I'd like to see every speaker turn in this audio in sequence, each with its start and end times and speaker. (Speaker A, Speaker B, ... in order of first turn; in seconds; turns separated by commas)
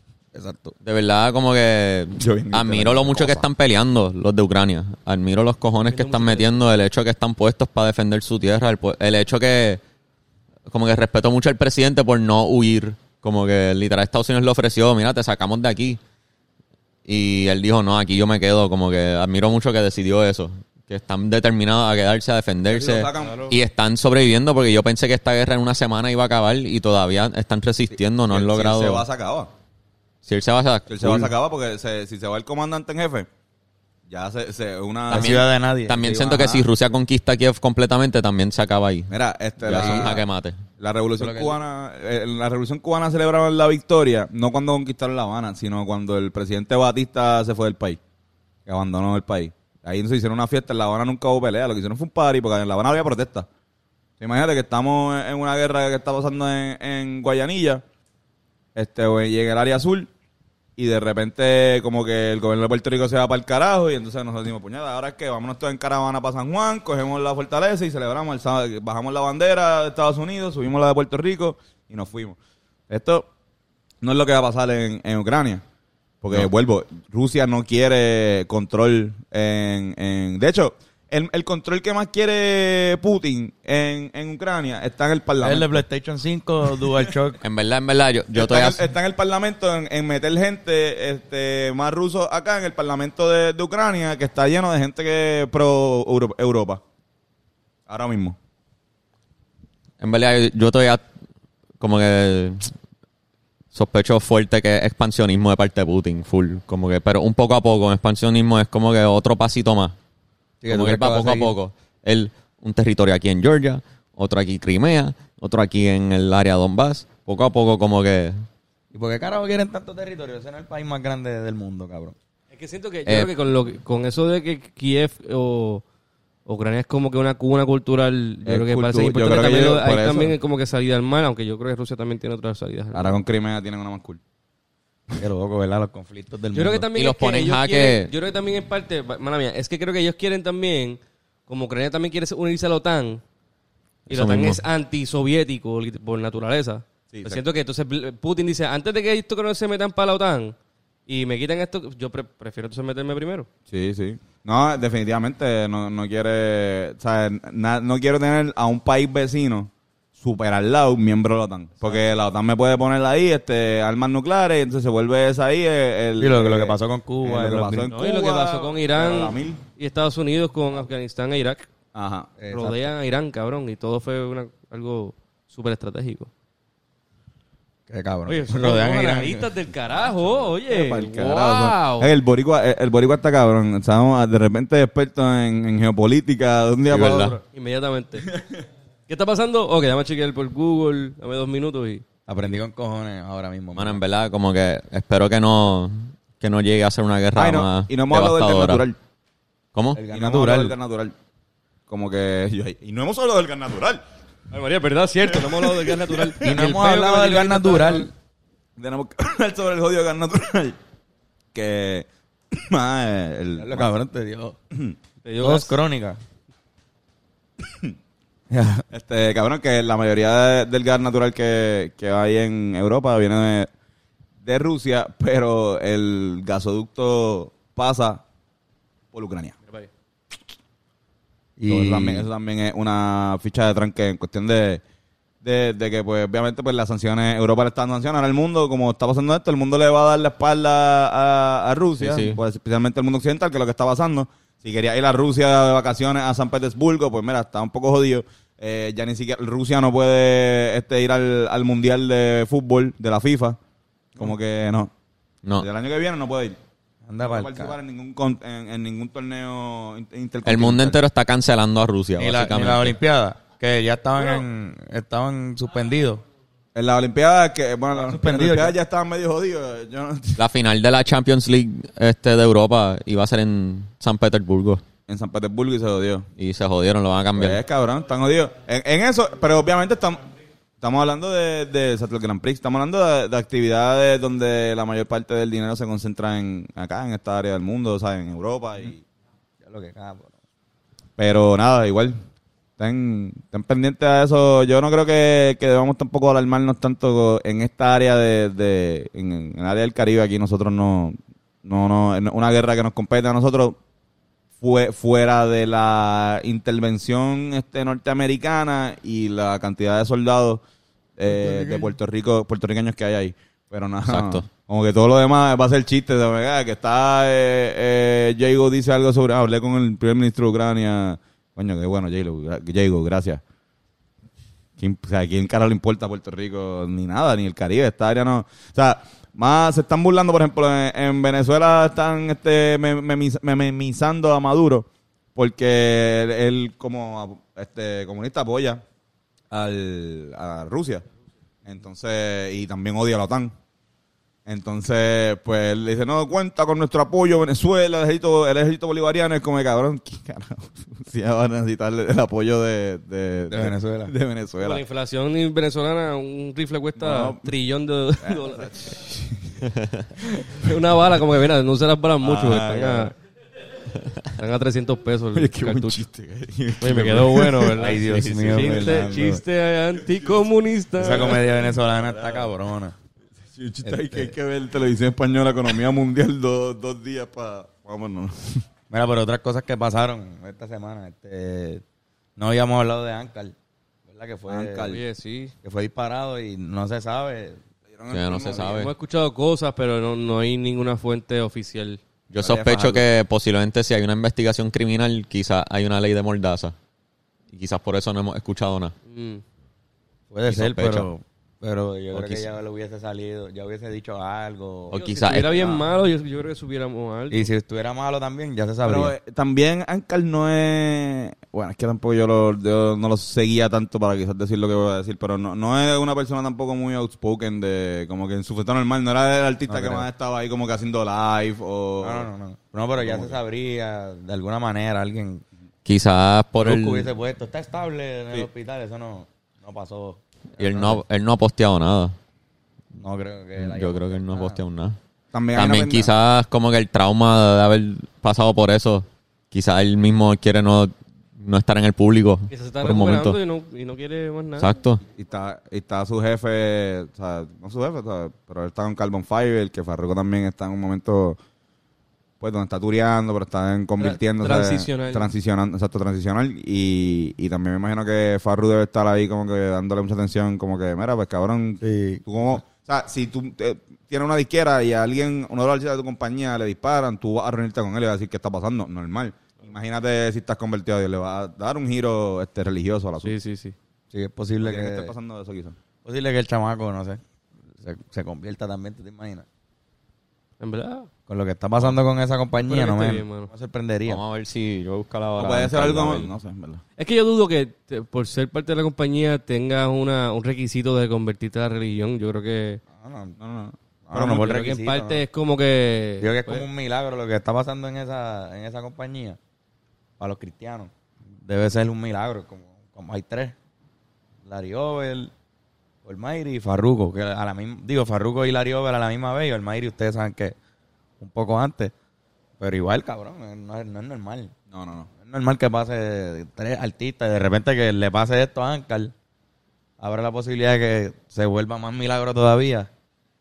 Speaker A: 0.3-0.7, Speaker B: 0.8-9.8, Speaker C: 2.2-3.5, Speaker D: 5.8-6.6, Speaker B: 10.7-16.0, Speaker B: 17.1-29.0, Speaker C: 22.6-23.6, Speaker C: 27.9-29.5, Speaker B: 30.2-31.3, Speaker C: 30.9-33.3, Speaker C: 34.1-35.4, Speaker A: 35.1-36.7, Speaker B: 35.1-40.6, Speaker C: 39.1-40.2, Speaker A: 39.7-40.1, Speaker C: 40.8-48.0, Speaker A: 41.2-41.6, Speaker C: 48.6-53.5, Speaker C: 54.2-57.8, Speaker C: 58.7-60.1, Speaker C: 60.8-72.4, Speaker C: 72.9-73.2, Speaker C: 74.0-75.6, Speaker C: 76.2-85.8, Speaker A: 85.4-87.4, Speaker C: 86.8-87.1, Speaker B: 87.4-88.8, Speaker C: 88.3-96.8, Speaker C: 97.9-98.4, Speaker B: 100.0-101.0, Speaker B: 101.8-102.7, Speaker B: 103.7-110.0, Speaker A: 110.6-111.5, Speaker B: 110.7-118.4, Speaker A: 118.9-122.2, Speaker D: 122.5-125.8, Speaker B: 123.1-123.3, Speaker D: 126.5-133.2, Speaker C: 128.4-130.3, Speaker C: 132.9-134.2, Speaker A: 135.2-136.9, Speaker D: 136.5-143.2, Speaker B: 136.9-138.1, Speaker B: 144.1-144.6, Speaker D: 144.1-150.5, Speaker C: 147.1-147.4, Speaker D: 151.1-153.5, Speaker C: 153.7-169.6, Speaker A: 166.2-167.9, Speaker D: 167.9-171.7, Speaker C: 171.9-172.4, Speaker A: 172.4-172.9, Speaker D: 172.5-176.3, Speaker A: 177.9-179.5, Speaker D: 178.3-182.1, Speaker C: 180.7-187.4, Speaker B: 186.9-187.4, Speaker D: 187.4-188.3, Speaker D: 189.1-192.0, Speaker A: 192.3-194.0, Speaker B: 193.7-198.8, Speaker C: 197.3-199.0, Speaker B: 199.7-200.0, Speaker A: 199.9-200.7, Speaker C: 200.1-201.1, Speaker C: 201.9-204.0, Speaker D: 204.5-208.1, Speaker C: 205.3-206.8, Speaker A: 206.4-208.1, Speaker C: 208.8-210.8, Speaker C: 211.5-213.9, Speaker A: 213.6-214.6, Speaker D: 215.2-215.8, Speaker A: 215.4-216.2, Speaker C: 217.6-217.9, Speaker A: 218.5-218.8, Speaker C: 218.9-223.7, Speaker C: 224.4-228.2, Speaker C: 229.1-229.6, Speaker A: 231.6-232.3, Speaker C: 231.7-234.8, Speaker C: 235.4-253.6, Speaker B: 242.0-242.4, Speaker C: 254.1-254.9, Speaker C: 255.6-256.6, Speaker A: 257.1-257.8, Speaker C: 257.2-261.0, Speaker B: 260.4-262.9, Speaker A: 262.2-266.2, Speaker C: 266.7-270.4, Speaker A: 267.9-268.8, Speaker B: 270.4-274.8, Speaker C: 275.1-276.3, Speaker B: 276.4-277.6, Speaker C: 277.3-280.3, Speaker C: 280.8-289.0, Speaker A: 289.6-290.4, Speaker C: 291.2-292.2, Speaker C: 292.8-303.8, Speaker C: 304.6-310.6, Speaker C: 311.2-323.4, Speaker A: 311.3-311.9, Speaker B: 314.1-314.4, Speaker C: 324.8-338.8, Speaker C: 339.5-341.0, Speaker C: 341.6-343.5, Speaker C: 344.4-354.8, Speaker A: 353.5-354.1, Speaker D: 354.6-359.0, Speaker C: 357.0-357.5, Speaker C: 358.2-359.7, Speaker B: 359.7-360.0, Speaker C: 360.4-360.7, Speaker D: 360.4-363.1, Speaker C: 362.2-363.1, Speaker D: 364.3-366.0, Speaker C: 365.3-367.9, Speaker D: 366.8-371.4, Speaker A: 367.8-369.4, Speaker B: 368.2-368.7, Speaker C: 368.8-369.1, Speaker A: 371.0-372.9, Speaker C: 371.0-372.5, Speaker C: 373.5-378.6, Speaker A: 373.8-374.3, Speaker A: 378.9-381.8, Speaker A: 382.4-383.5, Speaker A: 384.1-384.9, Speaker C: 384.5-385.0, Speaker D: 384.9-385.5, Speaker A: 385.6-387.6, Speaker C: 387.9-388.8, Speaker B: 388.1-388.9, Speaker D: 388.6-392.0, Speaker B: 392.3-396.7, Speaker C: 392.3-393.1, Speaker B: 397.5-398.9, Speaker D: 399.1-399.4, Speaker A: 400.3-405.0, Speaker B: 400.5-401.1, Speaker B: 402.1-402.5, Speaker B: 404.9-405.8, Speaker D: 404.9-407.5, Speaker A: 407.3-409.1, Speaker C: 408.8-422.3, Speaker A: 419.7-420.1, Speaker A: 422.0-425.4, Speaker C: 422.9-423.4, Speaker B: 425.8-427.1, Speaker A: 426.6-431.0, Speaker B: 430.6-432.1, Speaker A: 432.9-434.6, Speaker B: 433.6-435.0, Speaker C: 435.3-436.1, Speaker B: 435.5-443.4, Speaker D: 442.5-444.7, Speaker B: 444.6-445.0, Speaker C: 445.1-451.4, Speaker C: 452.4-473.3, Speaker D: 454.0-455.3, Speaker A: 461.8-462.6, Speaker D: 473.2-473.7, Speaker A: 474.1-475.1, Speaker C: 474.6-475.8, Speaker A: 476.0-477.2, Speaker A: 477.8-479.4, Speaker D: 480.6-481.1, Speaker A: 481.3-484.2, Speaker D: 482.6-483.5, Speaker B: 484.1-486.3, Speaker C: 485.4-486.8, Speaker D: 487.0-492.8, Speaker A: 492.9-493.4, Speaker C: 493.4-494.5, Speaker A: 494.1-495.2, Speaker D: 494.2-496.6, Speaker A: 496.2-499.4, Speaker A: 500.2-500.9, Speaker A: 501.4-503.5, Speaker A: 504.4-505.3, Speaker A: 506.0-510.6, Speaker A: 511.2-511.9, Speaker A: 512.6-514.5, Speaker C: 514.7-515.1, Speaker A: 515.2-519.1, Speaker A: 520.0-522.9